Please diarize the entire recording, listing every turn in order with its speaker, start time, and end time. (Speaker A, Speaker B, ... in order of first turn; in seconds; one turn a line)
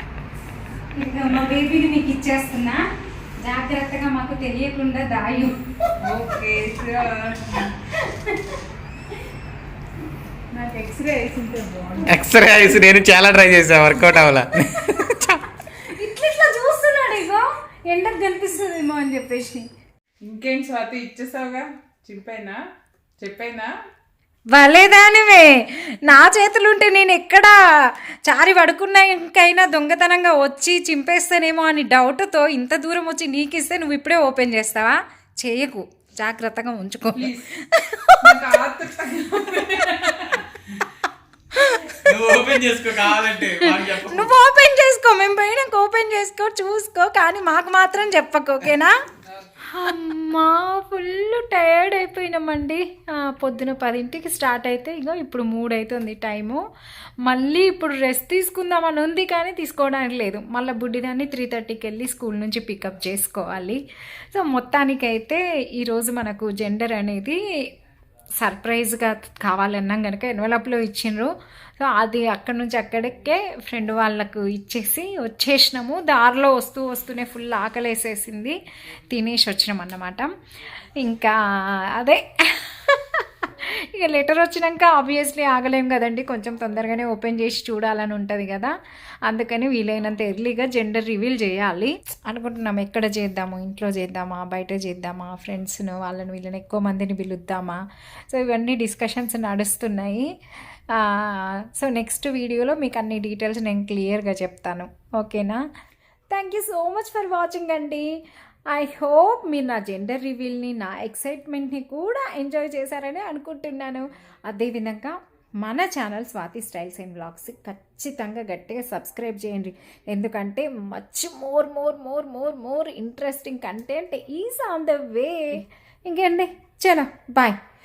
Speaker A: 0.9-2.9
Speaker A: 3.4-5.9
Speaker B: 6.0-7.7
Speaker A: 7.9-8.6
Speaker A: 10.5-12.1
Speaker C: 12.1-15.4
Speaker A: 15.8-19.7
Speaker B: 20.2-22.6
Speaker B: 23.2-23.7
Speaker A: 24.5-38.6
Speaker B: 37.2-37.5
Speaker B: 38.2-40.3
Speaker A: 41.5-42.0
Speaker C: 42.0-44.3
Speaker A: 43.6-48.9
Speaker A: 49.7-56.6
Speaker A: 57.2-63.8
Speaker A: 64.3-67.4
Speaker A: 68.4-78.6
Speaker A: 79.1-80.3
Speaker A: 81.0-97.8
Speaker A: 98.3-100.3
Speaker A: 100.9-105.7
Speaker A: 106.3-108.1
Speaker A: 108.7-127.6